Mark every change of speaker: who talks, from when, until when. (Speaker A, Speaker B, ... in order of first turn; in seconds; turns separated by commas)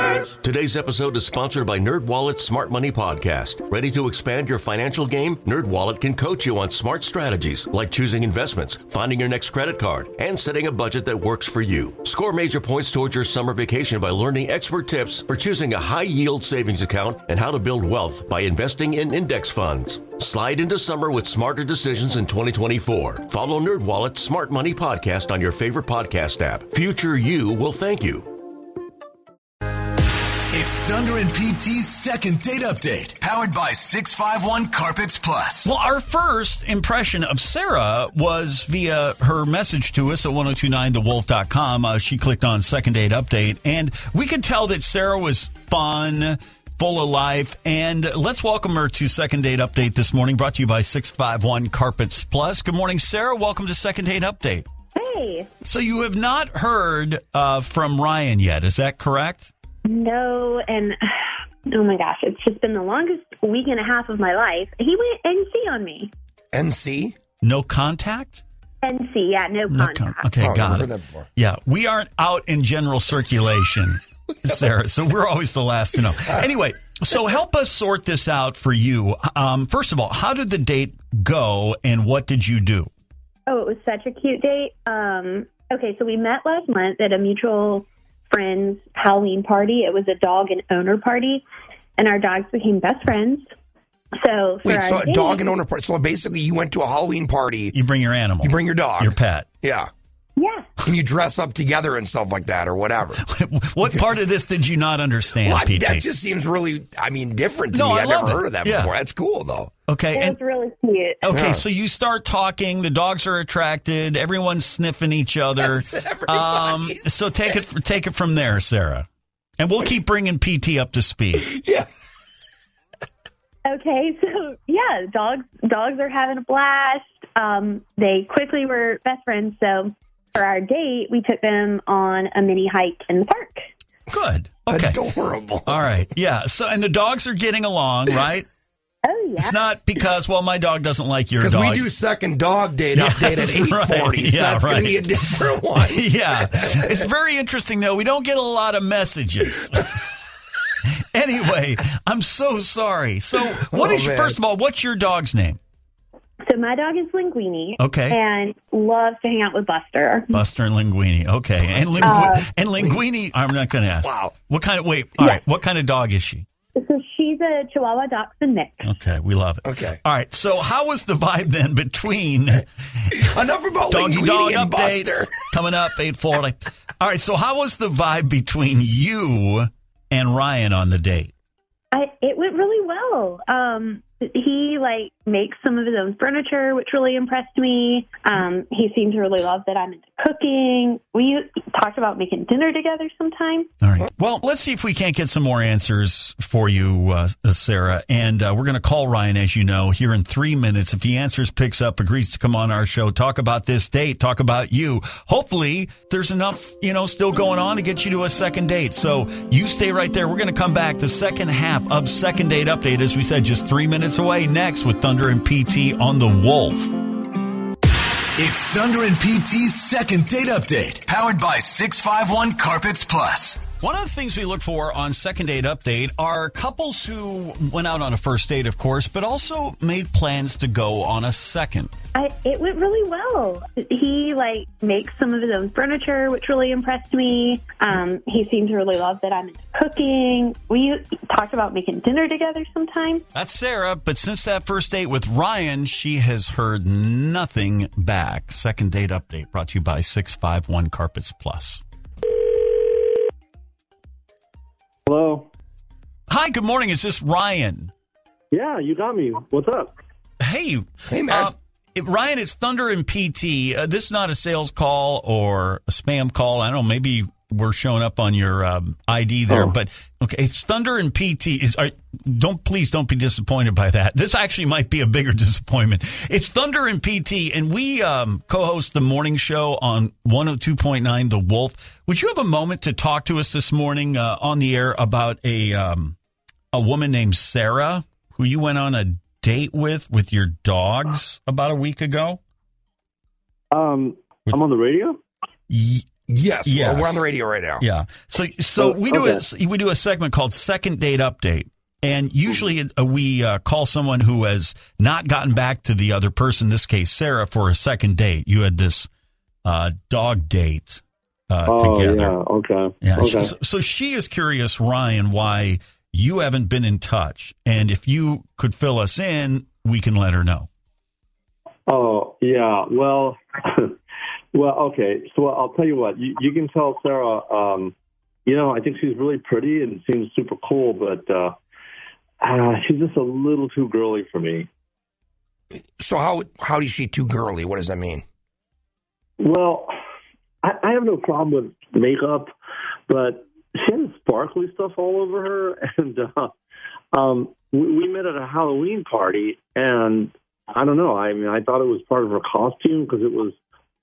Speaker A: 0.2-28.3, Speaker B: 30.5-35.6, Speaker C: 35.6-54.6, Speaker D: 54.9-55.5, Speaker C: 55.6-59.5, Speaker D: 59.8-61.0, Speaker D: 61.7-66.1, Speaker E: 66.5-67.2, Speaker C: 67.4-68.4, Speaker D: 68.8-70.3, Speaker C: 69.7-82.9, Speaker E: 70.4-71.3, Speaker D: 83.5-91.4, Speaker D: 92.0-93.5, Speaker D: 94.2-95.5, Speaker E: 94.6-97.8, Speaker C: 97.7-99.5, Speaker E: 98.4-99.9, Speaker D: 100.4-100.7, Speaker E: 100.8-103.2, Speaker C: 103.2-106.1, Speaker E: 103.8-104.2, Speaker E: 105.4-109.7, Speaker C: 107.7-108.9, Speaker C: 109.9-110.4, Speaker D: 110.1-111.2, Speaker C: 111.2-119.1, Speaker E: 111.3-111.6, Speaker E: 115.6-117.6, Speaker C: 119.6-121.5, Speaker E: 121.4-121.8, Speaker D: 123.7-133.7, Speaker C: 134.1-135.0, Speaker E: 134.7-136.0, Speaker C: 135.7-138.4, Speaker D: 139.0-139.6, Speaker C: 139.4-141.9, Speaker E: 141.4-147.0, Speaker C: 142.9-150.1, Speaker C: 151.1-155.6, Speaker E: 153.5-154.4, Speaker D: 156.4-160.4, Speaker C: 157.8-158.2, Speaker C: 160.3-166.4, Speaker E: 161.7-162.1, Speaker D: 162.0-162.5, Speaker E: 164.0-164.3, Speaker D: 166.8-168.9, Speaker C: 168.8-173.3, Speaker E: 169.6-170.0, Speaker E: 173.2-175.4, Speaker C: 173.9-181.3, Speaker D: 181.9-193.7, Speaker C: 193.8-216.9, Speaker B: 218.4-223.5, Speaker C: 223.8-231.9, Speaker D: 232.1-243.2, Speaker C: 243.3-251.8, Speaker F: 255.1-255.5, Speaker C: 256.3-257.9, Speaker F: 258.5-259.9, Speaker C: 260.4-286.2, Speaker E: 261.1-261.5, Speaker C: 286.7-292.4, Speaker F: 293.7-295.2, Speaker C: 295.7-296.1, Speaker E: 296.3-297.8, Speaker C: 296.6-297.3, Speaker C: 297.8-309.1, Speaker F: 298.8-299.4, Speaker C: 309.6-312.4, Speaker F: 311.7-313.5, Speaker C: 313.0-320.7, Speaker F: 321.9-324.0, Speaker F: 324.5-327.9, Speaker F: 328.4-331.6, Speaker F: 332.4-334.7, Speaker E: 336.0-338.2, Speaker F: 339.4-339.9, Speaker F: 340.6-342.5, Speaker F: 343.1-346.5, Speaker F: 347.1-353.6